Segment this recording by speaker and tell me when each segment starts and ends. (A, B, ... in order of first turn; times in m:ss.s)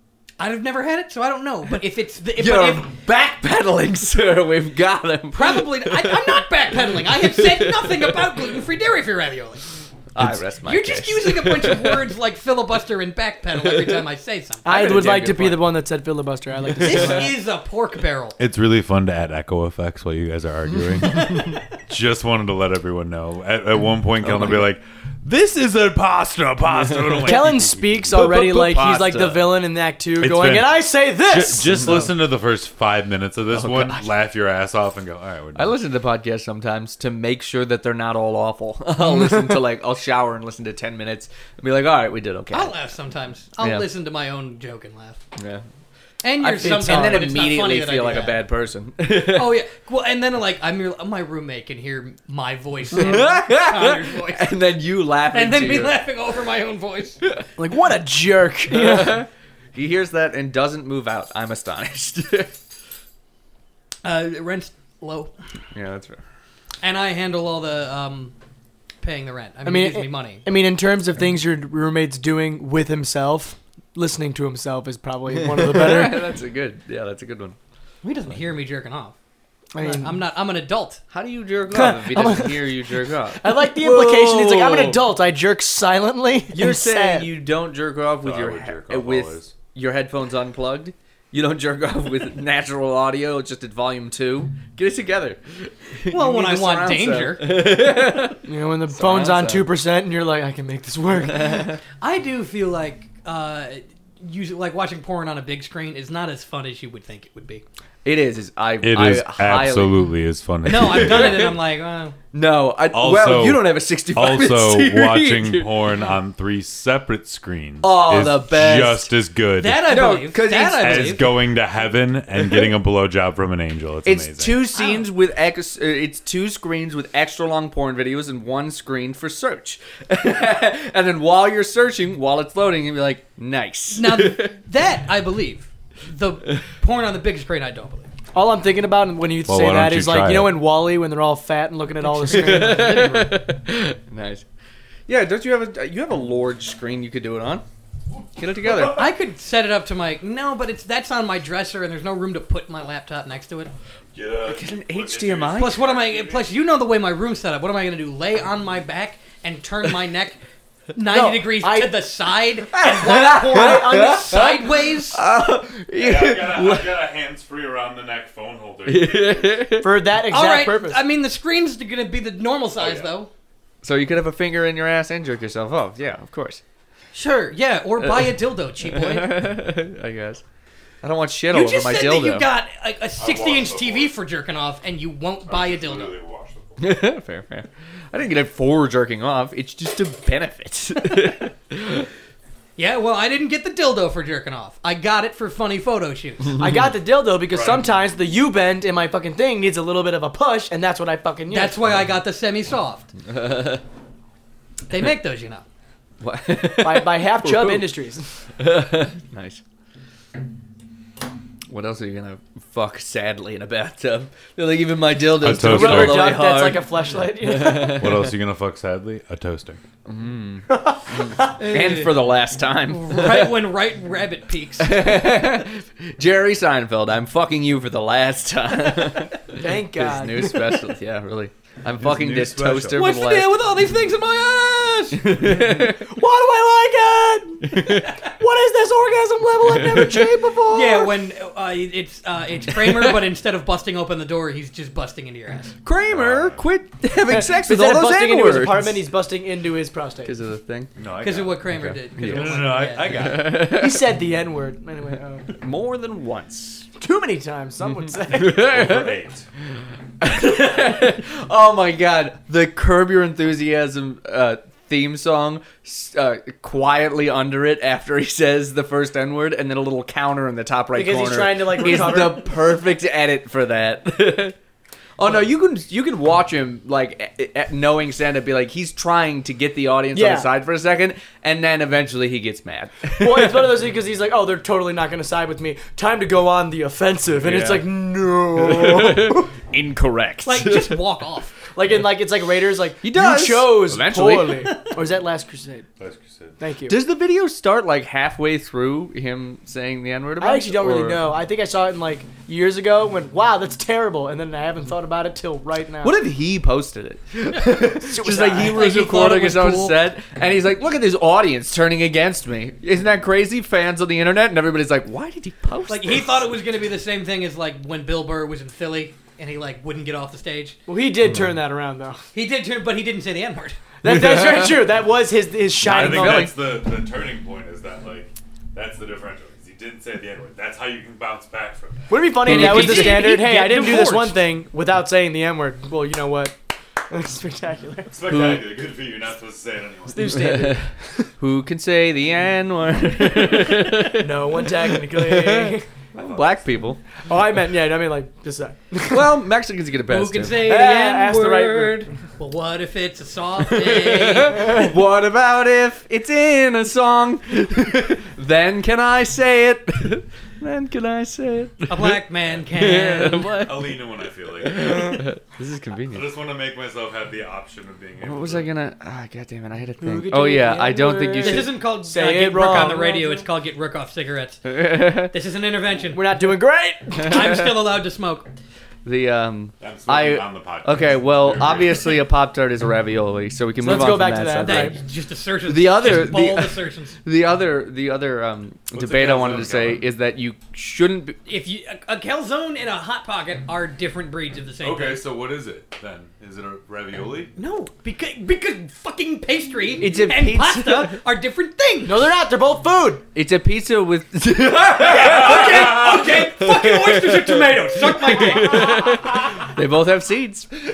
0:00.4-0:02.9 A
0:02.4-0:08.3 B
0:05.3-0:09.7 A
0:10.2-0:12.0 B
0:10.6-0:14.6 A
0:13.6-0:14.0 B
0:14.6-0:17.3 C
0:14.6-0:15.7 B
0:16.8-0:18.4 A
0:16.8-0:17.3 B
0:18.4-0:28.3 D
0:21.0-0:21.5 B
0:24.2-0:24.7 B
0:27.2-0:32.1 C
0:28.1-0:29.6 B
0:30.2-0:35.8 D
0:31.8-0:32.1 B
0:33.5-0:34.1 B
0:35.6-0:42.8 B
0:42.5-0:45.2 A
0:43.6-0:43.9 B
0:45.4-0:45.6 B
0:46.2-0:48.4 A
0:46.4-0:49.6 B
0:46.6-0:47.4 C
0:49.3-0:54.6 A
0:52.9-0:56.0 B
0:55.3-0:57.2 A
0:57.6-0:59.2 C
0:58.7-1:02.5 B
1:04.0-1:05.3 A
1:05.7-1:06.2 B
1:06.8-1:08.3 A
1:09.0-1:10.4 A
1:09.6-1:16.3 C
1:15.3-1:17.6 B
1:18.0-1:19.1 A
1:19.7-1:20.2 C
1:19.8-1:21.0 A
1:21.1-1:25.0 B
1:21.7-1:27.3 C
1:26.5-1:39.7 B
1:28.2-1:29.5 D
1:36.1-1:37.8 A
1:38.4-1:41.7 C
1:41.2-1:41.8 B
1:42.0-1:47.6 A
1:48.0-1:50.0 B
1:48.8-1:51.6 D
1:50.7-1:52.2 A
1:50.8-1:51.5 B
1:52.3-1:55.9 B
1:52.9-2:00.0 D
1:57.8-1:59.1 B
1:59.6-2:01.4 A
1:59.8-2:01.2 B
2:00.8-2:04.6 D
2:04.0-2:14.6 B
2:04.8-2:05.1 A
2:13.9-2:18.1 A
2:18.3-2:23.4 C
2:19.5-2:20.6 D
2:22.3-2:24.4 B
2:25.1-2:27.6 B
2:28.4-2:29.0 B
2:28.9-2:33.7 A
2:34.2-2:36.5 D
2:34.5-2:35.9 B
2:35.6-2:40.4 A
2:41.0-2:45.2 A
2:41.1-2:42.0 C
2:42.7-2:47.0 B
2:43.1-2:44.7 C
2:46.0-2:49.5 D
2:48.9-2:50.0 B
2:49.8-2:51.0 C
2:50.3-2:53.3 A
2:52.8-2:53.1 D
2:53.8-2:56.6 B
2:57.1-2:59.4 A
2:58.0-3:00.4 B
3:01.0-3:02.5 B
3:01.5-3:06.2 A
3:03.2-3:04.1 D
3:05.5-3:06.9 D
3:06.8-3:12.1 B
3:12.8-3:16.6 A
3:16.6-3:21.8 C
3:17.5-3:18.0 D
3:21.5-3:23.1 A
3:23.2-3:23.8 B
3:24.9-3:25.6 A
3:26.2-3:27.9 B
3:26.8-3:28.3 C
3:28.6-3:29.6 B
3:31.7-3:38.3 B
3:35.4-3:36.5 D
3:35.5-3:38.1 C
3:37.9-3:39.8 D
3:40.1-3:43.6 B
3:40.7-3:41.6 C
3:41.6-3:42.3 A
3:42.9-3:45.1 A
3:44.8-3:53.5 B
3:49.5-3:50.9 C
3:52.0-3:53.0 D
3:53.0-3:55.2 A
3:55.1-3:56.1 B
3:55.4-4:01.2 C
3:57.6-3:58.2 B
3:59.7-4:00.0 B
4:00.7-4:05.8 A
4:02.8-4:03.1 B
4:05.8-4:09.0 B
4:06.1-4:06.6 D
4:07.3-4:10.3 C
4:10.2-4:10.9 B
4:11.0-4:11.7 D
4:11.2-4:13.4 A
4:11.7-4:14.1 B
4:12.2-4:13.7 D
4:13.7-4:15.5 C
4:15.5-4:16.9 B
4:17.0-4:19.0 C
4:18.2-4:19.1 B
4:18.5-4:19.5 D
4:20.2-4:34.6 B
4:30.9-4:32.8 C
4:35.2-4:43.7 B
4:40.1-4:40.5 C
4:43.2-4:49.5 C
4:47.4-4:47.9 B
4:48.6-4:51.0 B
4:50.4-4:51.5 A
4:51.8-4:55.9 C
4:53.0-4:54.8 B
4:56.0-4:56.6 D
4:56.6-4:57.0 C
4:56.9-5:01.2 B
5:00.4-5:06.2 C
5:06.0-5:16.4 B
5:07.8-5:08.8 C
5:08.5-5:10.0 A
5:15.9-5:20.8 A
5:20.9-5:22.2 C
5:22.3-5:23.8 A
5:24.0-5:26.5 C
5:24.0-5:24.8 B
5:25.8-5:32.2 D
5:25.9-5:26.6 B
5:32.1-5:36.6 C
5:32.4-5:34.4 A
5:32.5-5:33.3 B
5:37.1-5:38.1 C
5:38.1-5:40.6 D
5:38.3-5:38.6 B
5:40.1-5:40.9 C
5:40.4-5:40.8 B
5:41.4-5:47.0 B
5:44.1-5:45.9 C
5:46.2-5:46.7 D
5:47.3-5:49.4 C
5:49.1-5:50.9 B
5:50.1-5:54.8 A
5:50.6-5:52.1 C
5:53.7-6:02.2 B
6:01.9-6:03.6 A
6:02.7-6:04.0 B
6:03.6-6:05.3 D
6:04.6-6:06.2 B
6:06.1-6:08.7 D
6:08.2-6:11.7 B
6:10.0-6:13.5 C
6:11.4-6:16.2 A
6:14.6-6:15.3 B
6:16.1-6:17.5 C
6:17.2-6:17.7 B
6:17.3-6:18.5 A
6:19.0-6:25.0 B
6:19.8-6:22.2 D
6:23.8-6:25.0 C
6:24.6-6:27.2 A
6:25.7-6:31.4 B
6:28.9-6:30.1 D
6:31.5-6:35.2 A
6:34.8-6:37.5 D
6:37.6-6:42.3 A
6:40.0-6:41.2 B
6:42.0-6:43.2 C
6:43.4-6:50.7 B
6:45.0-6:49.4 A
6:45.2-6:46.2 D